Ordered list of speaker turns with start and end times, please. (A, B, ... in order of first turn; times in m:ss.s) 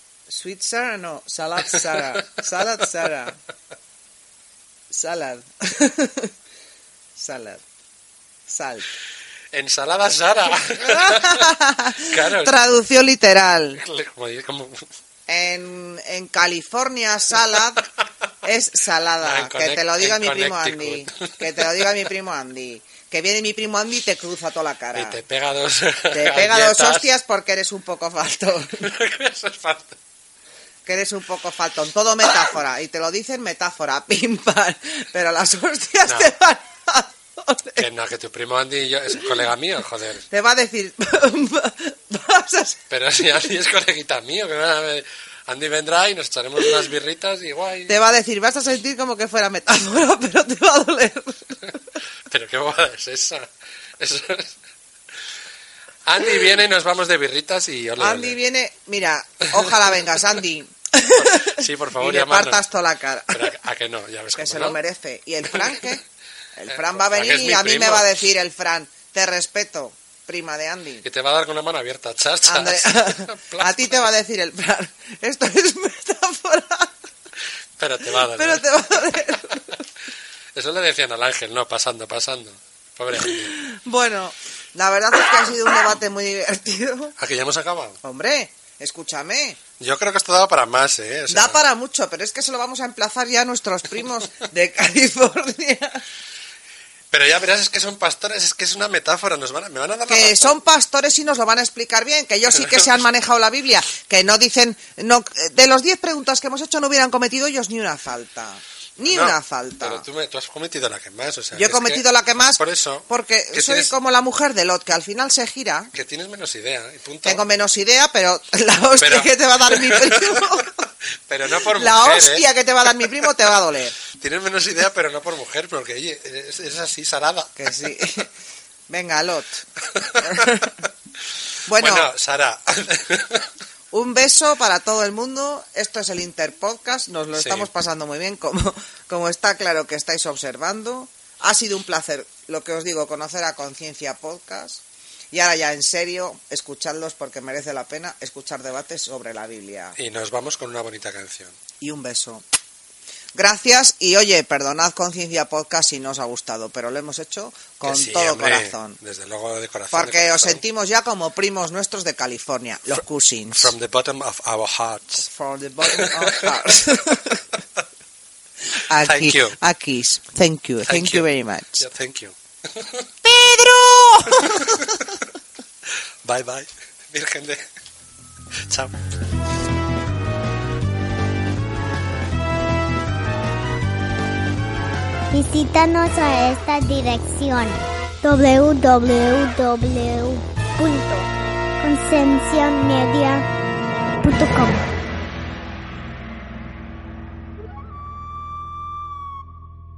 0:00.3-0:03.4 A
0:01.7-0:02.2 B
0:04.9-0:06.3 A
0:07.2-0:07.6 A
0:08.5-0:08.9 A
0:09.5-0:12.6 B
0:10.6-0:13.8 A
0:13.8-0:14.9 B
0:15.3-0:17.9 A
0:18.4-0:25.2 A
0:19.2-0:21.8 B
0:24.9-0:27.1 B
0:26.1-0:28.9 A
0:28.8-0:30.0 B
0:30.8-0:37.9 A
0:36.0-0:36.3 B
0:37.8-0:40.3 B
0:40.3-0:42.8 A
0:42.9-0:48.0 B
0:47.9-0:51.7 A
0:52.3-0:54.6 B
0:56.0-0:58.4 B
0:58.0-1:03.5 A
1:01.1-1:02.6 B
1:03.3-1:04.8 B
1:04.4-1:06.0 A
1:05.5-1:05.8 B
1:06.6-1:11.0 A
1:06.7-1:08.2 B
1:11.0-1:14.0 B
1:12.4-1:16.9 A
1:17.8-1:18.7 B
1:18.1-1:19.8 A
1:20.5-1:23.5 B
1:23.1-1:27.2 A
1:27.2-1:28.0 B
1:28.0-1:29.6 A
1:29.8-1:31.6 B
1:31.3-1:36.0 A
1:37.1-1:40.6 B
1:40.1-1:50.0 A
1:42.5-1:42.9 B
1:49.0-1:53.9 B
1:51.6-1:55.9 A
1:55.9-1:57.4 B
1:57.2-2:00.8 A
1:59.0-2:03.2 B
2:01.5-2:04.0 A
2:04.1-2:07.6 B
2:07.6-2:08.3 A
2:08.9-2:09.6 A
2:09.9-2:10.6 B
2:10.2-2:10.8 A
2:11.6-2:12.1 A
2:11.8-2:13.5 B
2:13.9-2:30.0 A
2:17.3-2:17.7 B
2:30.0-2:31.6 B
2:31.8-2:32.4 A
2:33.3-2:39.0 A
2:37.8-2:40.6 B
2:39.9-2:43.7 A
2:43.5-2:45.3 B
2:45.2-2:47.4 A
2:45.8-2:47.2 B
2:48.8-2:51.9 A
2:49.0-2:49.6 B
2:50.8-2:53.1 B
2:53.2-2:54.8 A
2:54.2-2:55.1 B
2:56.2-2:57.7 B
2:58.6-2:59.0 B
3:05.3-3:11.3 C
3:11.8-3:13.4 C
3:14.2-3:14.9 C